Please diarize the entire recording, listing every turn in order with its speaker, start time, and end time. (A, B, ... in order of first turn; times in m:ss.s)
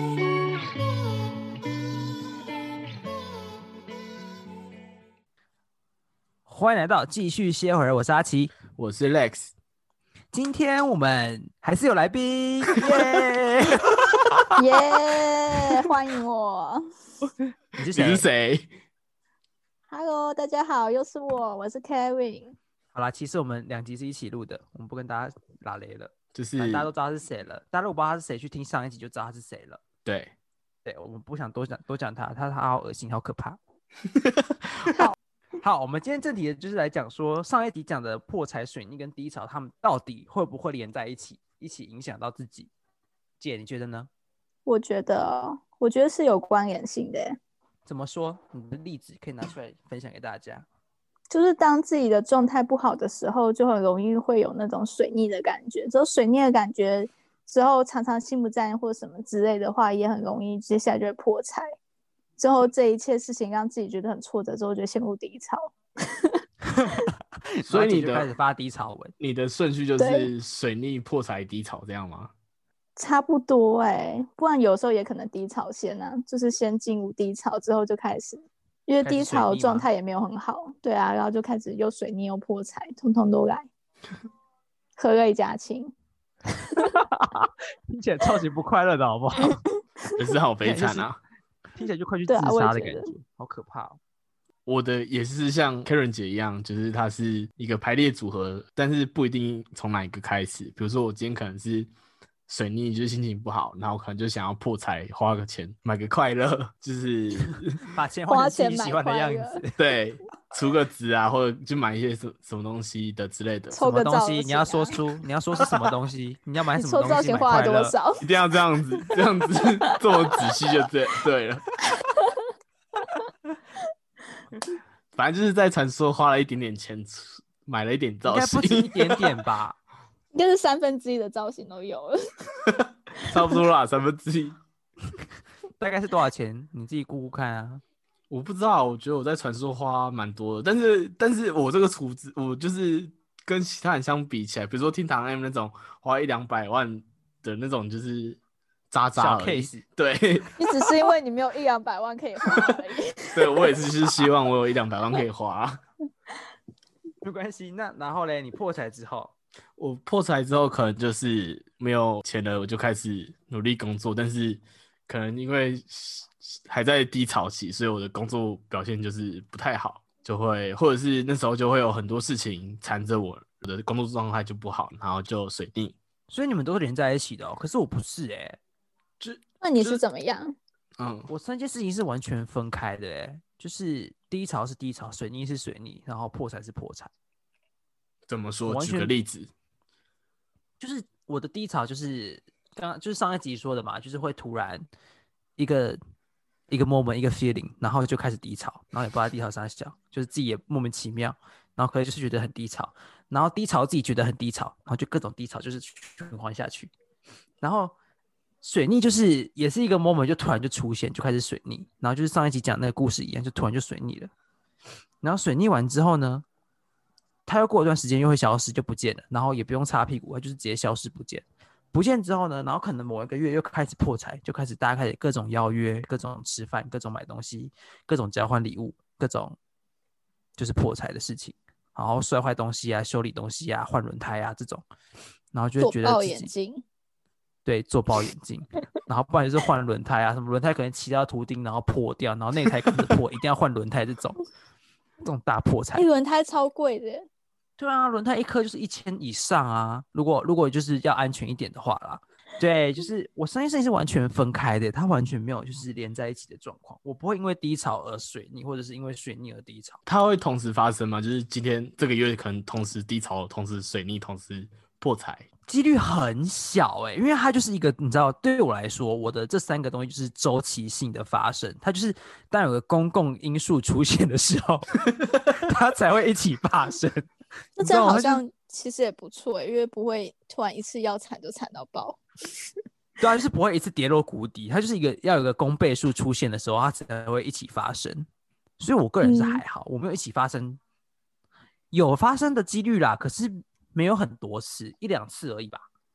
0:06.5-0:08.5 A
0:08.8-0:09.5 B
0:10.3-0:14.0 A
0:13.8-0:14.2 B
0:14.6-0:16.8 C
0:17.7-0:18.2 A
0:17.9-0:18.7 B
0:19.9-0:22.6 C
0:22.9-0:29.8 A
0:26.3-0:26.9 B
0:30.0-0:30.3 B
0:30.8-0:33.6 A
0:34.1-0:35.0 B
0:35.6-0:42.7 A
0:43.4-0:44.1 A
0:44.6-0:47.4 C
0:47.8-0:50.6 A
0:51.3-1:01.6 C
1:02.4-1:05.6 C
1:06.7-1:07.0 A
1:07.5-1:09.1 A
1:07.7-1:08.3 B
1:09.2-1:12.3 B
1:10.0-1:10.3 C
1:13.0-1:23.7 C
1:19.0-1:19.9 A
1:25.0-1:25.9 C
1:26.7-1:27.0 C
1:26.9-1:29.6 A
1:30.2-1:31.2 B
1:30.6-1:31.1 A
1:31.7-1:34.0 A
1:32.3-1:33.1 C
1:34.6-1:41.9 B
1:42.5-1:47.8 B
1:47.5-1:49.8 A
1:48.3-1:49.6 C
1:49.8-1:53.8 B
1:53.7-1:54.9 C
1:53.8-1:57.9 A
1:55.6-1:55.9 B
1:56.8-1:58.2 C
1:58.2-2:01.7 B
2:01.9-2:02.4 C
2:05.1-2:09.3 B
2:08.2-2:09.8 A
2:10.3-2:12.2 C
2:13.2-2:14.6 B
2:15.8-2:17.8 A
2:18.3-2:28.4 B
2:28.9-2:30.5 B
2:29.2-2:29.8 A
2:30.6-2:33.9 C
2:33.3-2:35.8 B
2:37.2-2:39.3 A
2:39.8-2:55.9 B
2:56.3-2:58.6 A
2:59.2-3:00.0 B
2:59.6-3:00.5 C
3:01.0-3:01.3 B
3:01.3-3:07.1 A
3:08.3-3:09.5 B
3:08.7-3:09.1 A
3:10.8-3:14.8 A
3:15.6-3:16.0 A
3:16.7-3:26.9 A
3:27.6-3:27.9 A
3:28.6-3:34.3 A
3:35.2-3:36.4 A
3:37.4-3:49.6 A
3:50.6-3:54.8 A
3:55.5-3:56.5 A
3:55.8-3:56.8 C
3:57.6-4:04.4 A
4:05.2-4:06.0 A
4:05.9-4:07.2 C
4:07.8-4:20.0 A
4:20.0-4:25.5 B
4:25.7-4:34.9 A
4:35.5-4:38.4 A
4:37.8-4:42.2 C
4:43.2-4:48.3 A
4:48.8-4:50.8 A
4:49.2-4:49.6 C
4:51.9-4:55.9 A